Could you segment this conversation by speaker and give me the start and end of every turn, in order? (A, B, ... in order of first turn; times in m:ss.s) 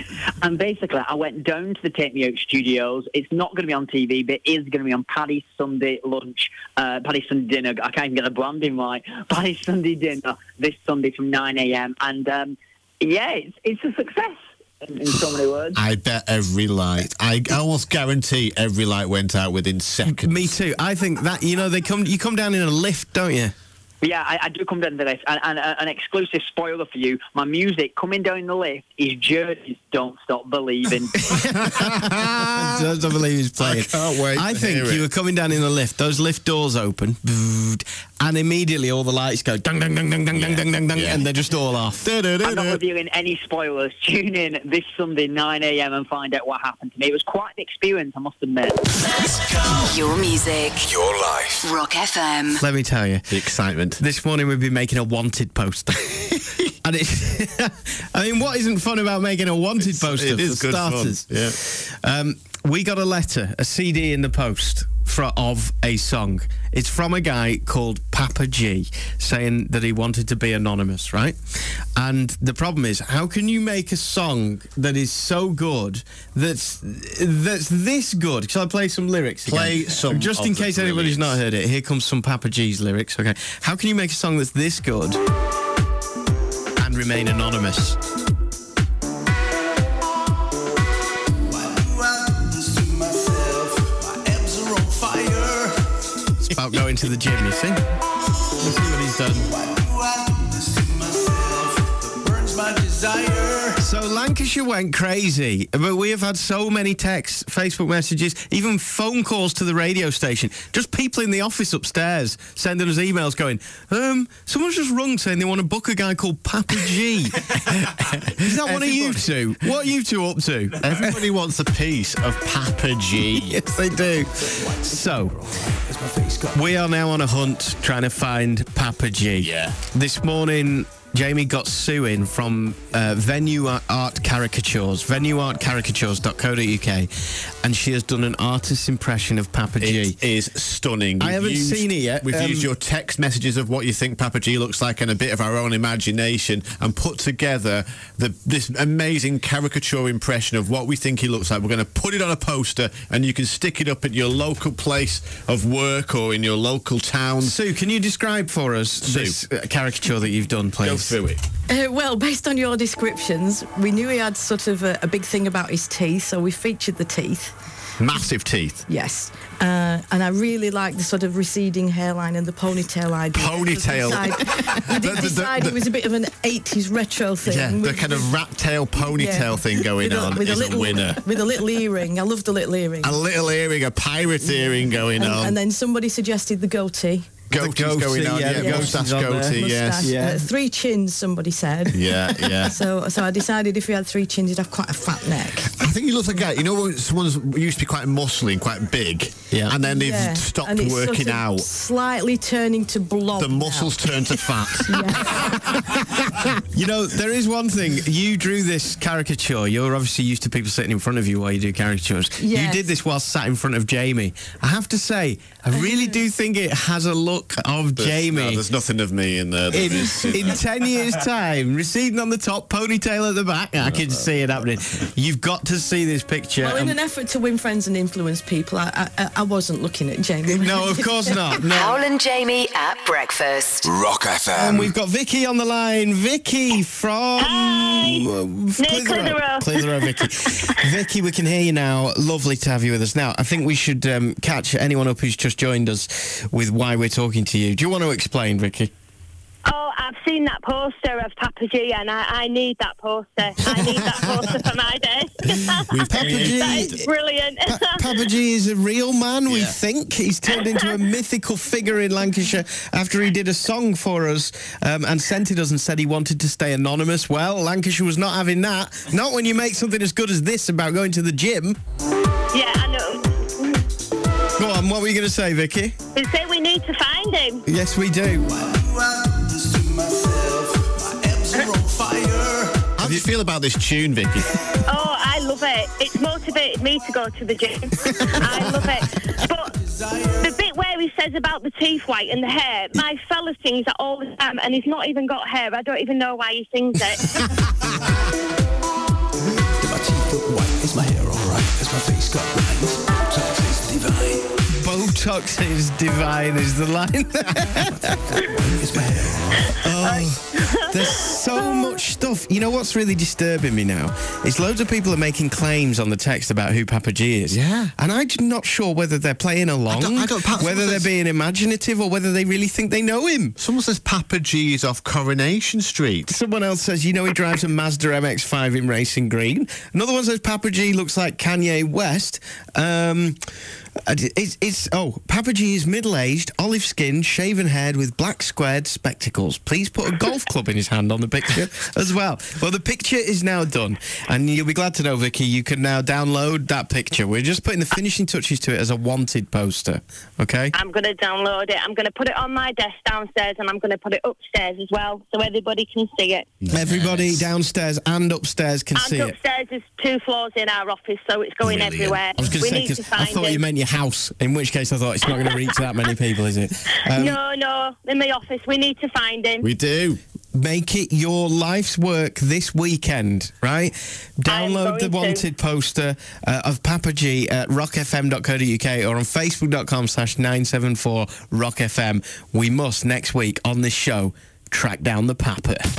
0:00.4-0:15.8 A
0:15.7-0:20.5 B
0:20.1-0:23.5 C
0:24.0-0:31.1 A
0:31.2-0:42.1 C
0:31.3-0:32.9 B
0:33.6-0:35.0 B
0:40.3-0:41.3 B
0:42.0-0:42.8 B
0:42.4-0:48.8 A
0:49.7-0:50.9 D
0:50.8-0:51.7 E
0:51.6-0:52.6 D
0:52.6-0:53.3 C
0:53.3-0:54.0 B
0:54.0-1:25.2 C
0:59.8-1:01.6 B
1:19.4-1:21.4 B
1:26.8-1:28.0 C
1:31.4-1:35.8 F
1:36.4-1:37.8 C
1:38.6-1:39.5 C
1:39.3-1:43.8 F
1:43.8-2:01.1 C
1:58.4-1:59.5 B
2:00.8-2:03.6 B
2:03.3-2:05.4 C
2:04.4-2:06.6 F
2:06.5-2:17.1 C
2:09.4-2:09.8 B
2:17.6-2:20.2 C
2:19.8-2:37.6 B
2:21.2-2:22.7 C
2:37.4-2:41.2 C
2:39.0-2:39.4 B
2:40.8-2:41.4 B
2:41.7-2:47.5 G
2:48.0-2:48.8 B
2:48.9-2:58.3 G
2:53.3-2:55.8 B
2:57.5-3:01.6 B
2:59.0-3:03.2 G
3:03.0-3:05.6 B
3:04.4-3:07.4 G
3:07.5-3:10.1 B
3:07.5-3:10.5 C
3:08.6-3:15.7 G
3:11.9-3:12.8 B
3:15.7-3:21.7 B
3:19.5-3:19.8 C
3:19.8-3:25.5 G
3:23.4-3:26.6 B
3:26.7-3:38.6 C
3:32.4-3:32.9 G
3:35.7-3:36.3 G
3:38.0-3:40.6 B
3:39.7-3:47.0 C
3:43.8-3:44.3 B
3:46.6-3:51.6 G
3:50.5-3:51.9 C
3:51.6-3:53.8 D
3:53.8-3:54.9 E
3:54.5-4:08.9 C
3:57.4-3:58.2 H
3:58.8-4:00.8 H
4:09.6-4:18.0 H
4:13.8-4:14.4 B
4:15.9-4:17.0 B
4:16.1-4:17.0 C
4:17.6-4:31.8 C
4:19.5-4:19.8 B
4:32.5-4:33.8 H
4:34.6-4:36.0 C
4:36.1-4:37.6 H
4:37.7-4:38.5 C
4:38.4-4:42.9 F
4:43.0-4:44.5 B
4:43.0-4:43.3 C
4:44.9-4:49.7 H
4:48.5-4:48.8 F
4:49.5-4:50.6 F
4:50.4-4:57.3 H
4:59.8-5:04.5 F
5:04.7-5:08.4 C
5:07.7-5:09.7 F
5:09.8-5:23.6 C
5:10.0-5:11.9 H
5:17.5-5:17.9 B
5:19.9-5:21.1 B
5:23.6-5:26.3 B
5:26.3-5:33.4 C
5:34.0-5:50.7 C
5:50.7-5:56.5 H
5:56.6-5:57.5 B
5:56.7-5:59.3 C
5:58.9-6:03.6 H
6:01.6-6:02.6 B
6:02.4-6:07.4 C
6:05.5-6:05.8 H
6:07.1-6:09.7 H
6:09.6-6:10.2 B
6:10.5-6:25.8 C
6:14.4-6:15.4 H